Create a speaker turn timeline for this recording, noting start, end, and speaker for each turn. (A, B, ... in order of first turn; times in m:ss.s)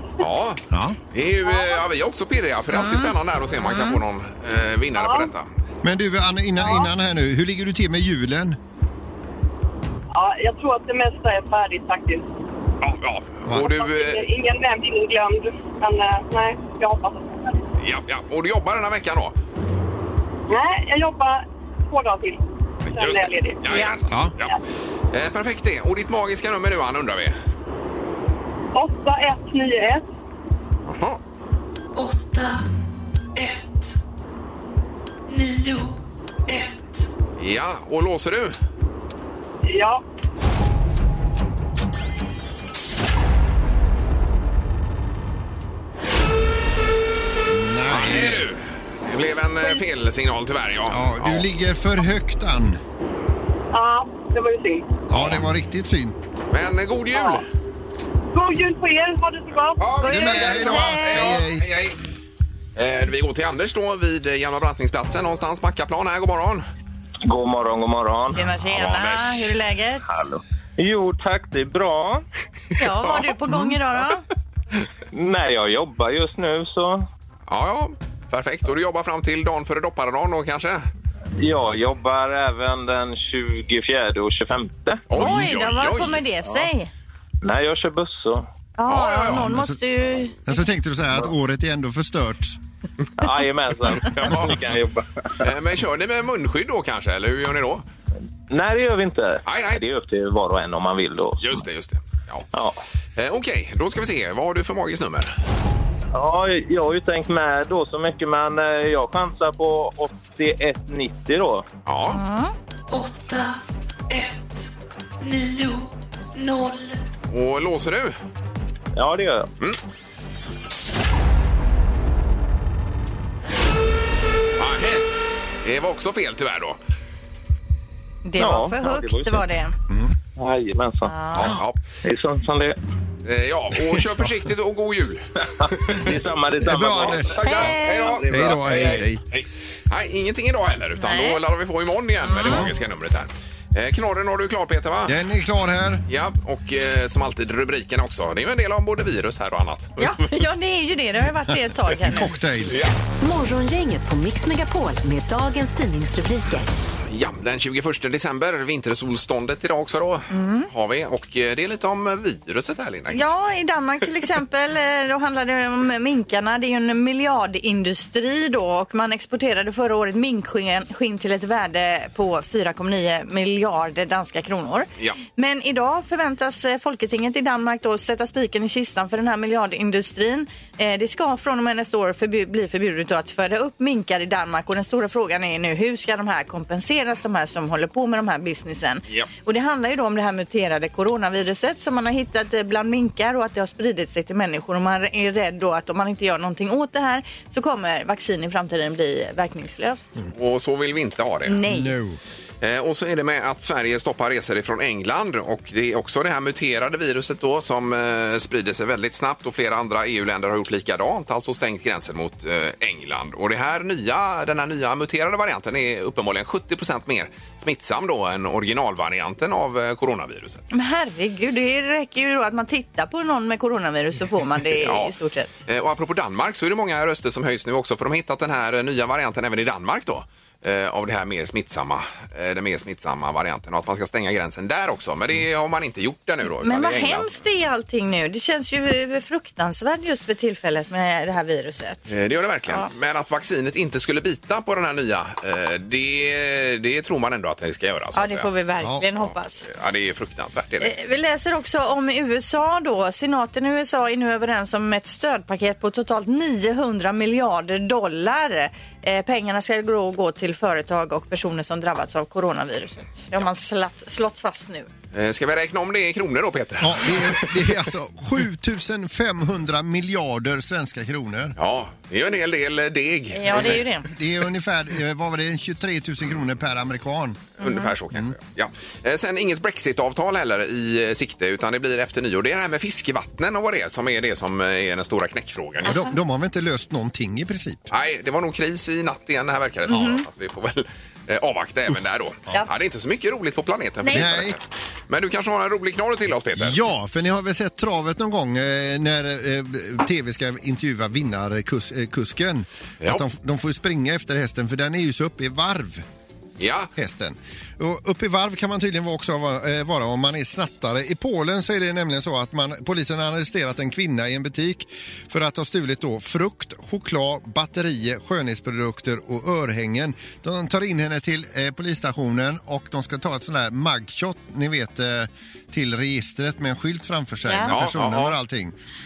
0:00.2-0:00.6 A
0:00.7-0:01.0 B
0:01.1-0:05.5 A
0:01.4-0:01.8 C
0:02.7-0:04.0 D
0:05.0-0:05.3 C
0:05.8-0:08.6 B
0:06.6-0:06.9 C
0:10.1-0:12.2 C
0:12.8-0:14.2 A
0:13.5-0:17.6 C
0:17.8-0:19.3 A
0:20.5-0:22.4 C
0:22.9-0:24.5 A
0:22.9-0:23.7 C
0:23.7-0:24.0 D
0:25.1-0:27.4 A
0:28.7-0:30.0 C
0:30.9-0:31.2 A
0:31.9-0:32.6 E
0:33.3-0:34.0 E
0:35.3-0:37.1 E
0:37.4-0:38.5 A
0:39.6-0:40.0 C
0:47.5-0:48.4 B
0:47.9-0:51.4 A
0:50.9-0:52.8 B
0:53.7-0:54.9 C
0:55.1-0:56.2 B
0:55.1-0:55.4 A
0:56.5-0:57.4 A
0:57.2-0:57.4 C
0:58.3-1:00.7 C
0:59.8-1:02.0 A
1:00.0-1:01.3 D
1:00.1-1:01.6 B
1:02.8-1:06.6 A
1:07.2-1:08.4 F
1:08.3-1:10.0 D
1:08.7-1:09.5 A
1:10.1-1:12.2 F
1:12.8-1:14.2 D
1:13.0-1:13.3 A
1:15.1-1:17.0 F
1:17.5-1:20.9 A
1:21.4-1:25.0 F
1:25.1-1:26.2 A
1:25.1-1:26.9 D
1:25.2-1:25.5 B
1:27.4-1:28.4 F
1:28.8-1:30.4 D
1:28.9-1:29.5 A
1:29.3-1:29.7 B
1:30.4-1:32.6 B
1:33.2-1:35.5 F
1:34.0-1:34.6 A
1:35.4-1:37.8 A
1:38.5-1:41.6 F
1:39.4-1:39.8 A
1:41.4-1:42.5 A
1:42.5-1:42.8 F
1:43.2-1:45.3 A
1:46.1-1:51.7 F
1:51.8-1:52.2 A
1:52.1-1:52.5 D
1:52.9-1:53.6 E
1:54.1-1:57.0 E
1:57.3-1:58.2 A
1:59.0-1:59.5 F
2:04.6-2:05.0 A
2:05.6-2:06.8 A
2:08.2-2:09.7 D
2:08.4-2:09.4 F
2:09.9-2:10.1 B
2:10.4-2:11.1 F
2:11.0-2:11.6 D
2:11.3-2:11.8 A
2:12.0-2:12.8 F
2:13.2-2:16.0 A
2:15.6-2:19.0 F
2:16.6-2:17.7 B
2:17.2-2:25.2 A
2:17.4-2:18.2 D
2:18.3-2:19.2 B
2:21.0-2:21.4 D
2:22.2-2:22.6 D
2:25.0-2:26.0 B
2:26.1-2:30.2 A
2:30.0-2:32.3 D
2:32.0-2:32.8 B
2:33.2-2:36.7 G
2:37.1-2:43.2 A
2:40.3-2:40.7 D
2:43.1-3:20.1 D
3:20.3-3:21.6 A
3:21.4-3:21.9 D
3:21.7-3:22.2 B
3:22.6-3:40.6 A
3:40.7-3:45.5 D
3:44.8-3:45.1 A
3:45.7-3:57.3 A
3:56.6-4:02.1 D
4:02.1-4:08.5 A
4:08.1-4:09.6 D
4:09.6-4:10.9 A
4:10.8-4:24.9 D
4:25.1-4:27.8 A
4:26.8-4:31.6 B
4:31.6-4:33.8 A
4:33.3-4:34.1 D
4:33.5-4:37.5 B
4:37.6-4:46.0 A
4:37.6-4:37.9 D
4:45.8-4:47.8 B
4:47.9-4:56.8 A
4:49.9-4:50.2 D
4:54.0-4:54.3 D
4:54.1-4:54.6 B
4:56.6-5:06.0 B
5:06.6-5:06.9 A
5:06.9-5:28.7 B
5:27.5-5:27.7 D
5:27.7-5:28.3 A